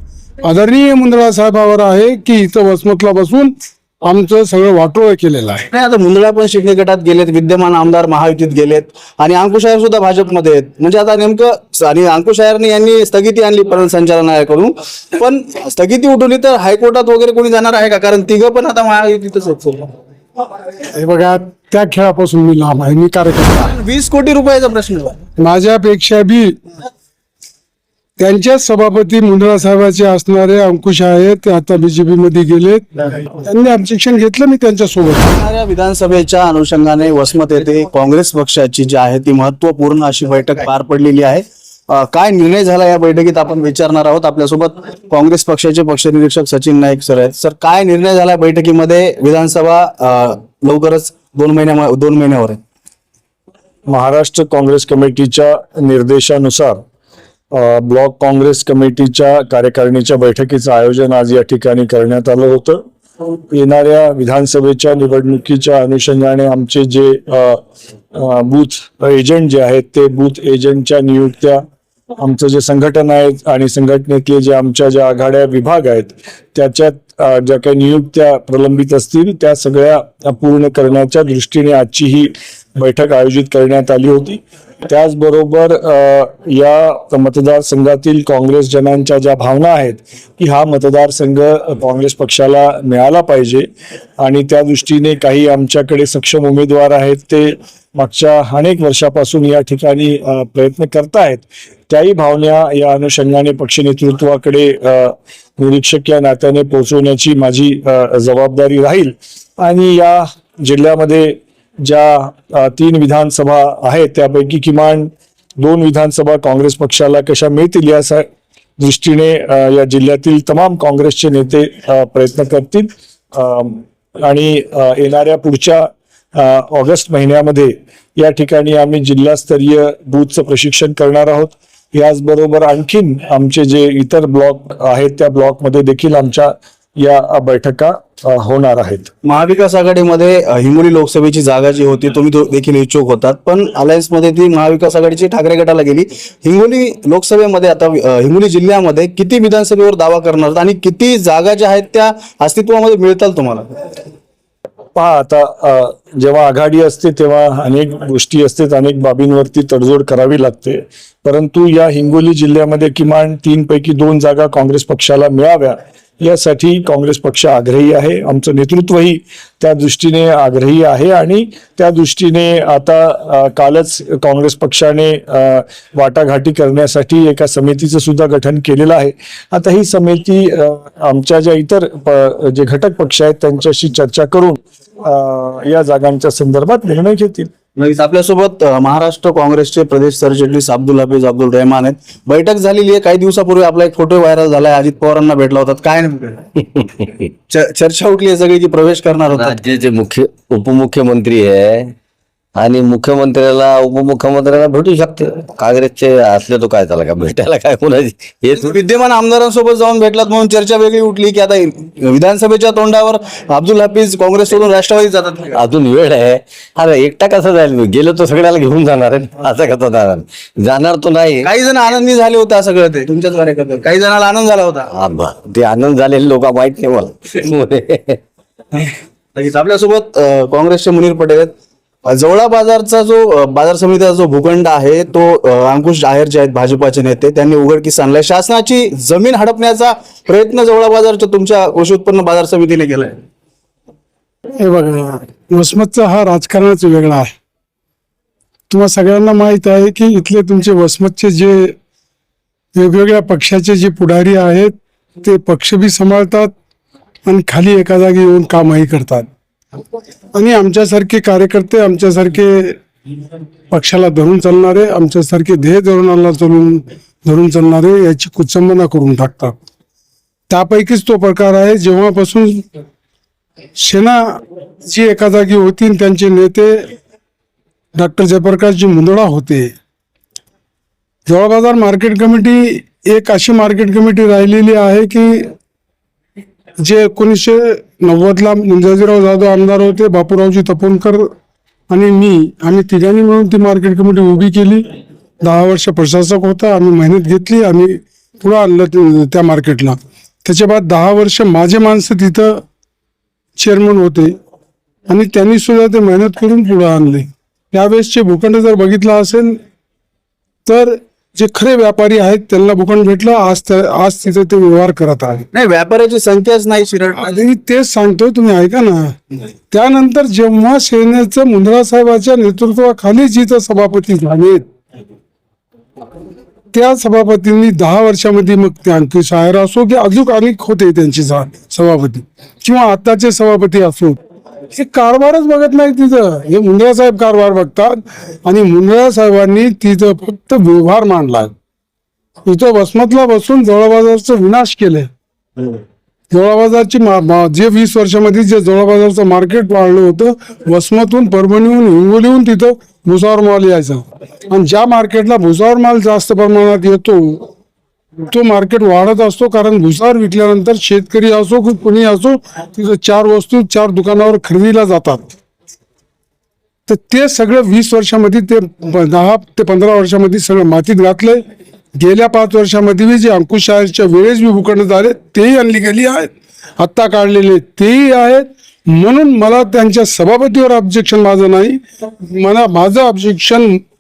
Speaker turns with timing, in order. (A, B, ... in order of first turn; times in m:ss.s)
0:00.4-0:05.6 A
0:05.7-0:19.9 B
0:20.8-0:23.7 A
0:23.6-0:25.2 B
0:25.4-0:26.6 A
0:28.2-0:35.3 A
0:35.2-0:52.6 B
0:53.9-0:56.8 C
0:57.5-1:02.8 C
1:03.5-1:07.6 C
1:08.1-1:11.6 C
1:12.2-1:33.6 C
1:34.2-1:58.2 C
1:58.8-2:19.1 C
2:19.2-2:33.6 B
2:34.9-3:07.5 C
3:07.8-3:16.4 B
3:17.5-3:19.6 B
3:19.3-3:21.9 D
3:22.6-3:28.7 D
3:28.6-3:35.5 B
3:35.5-3:41.5 D
3:41.4-3:44.9 B
3:44.9-3:48.2 D
3:49.4-3:51.5 B
3:52.1-4:03.2 B
4:04.6-4:07.3 A
4:08.7-4:11.8 A
4:12.7-4:16.5 A
4:17.2-4:19.3 A
4:20.3-4:22.8 A
4:23.7-4:29.6 A
4:30.5-4:32.7 A
4:33.8-4:37.0 A
4:37.9-4:39.7 A
4:41.2-4:45.5 A
4:46.8-4:51.3 A
4:51.9-5:02.6 A
5:03.6-5:04.4 A
5:05.1-5:09.6 A
5:10.6-5:15.4 A
5:15.5-5:17.4 B
5:17.2-5:19.1 A
5:19.7-5:24.6 A
5:26.7-5:41.5 A
5:42.4-5:45.1 A
5:46.3-5:57.5 A
5:58.2-6:05.3 A
6:06.9-6:11.4 A
6:11.9-6:23.8 A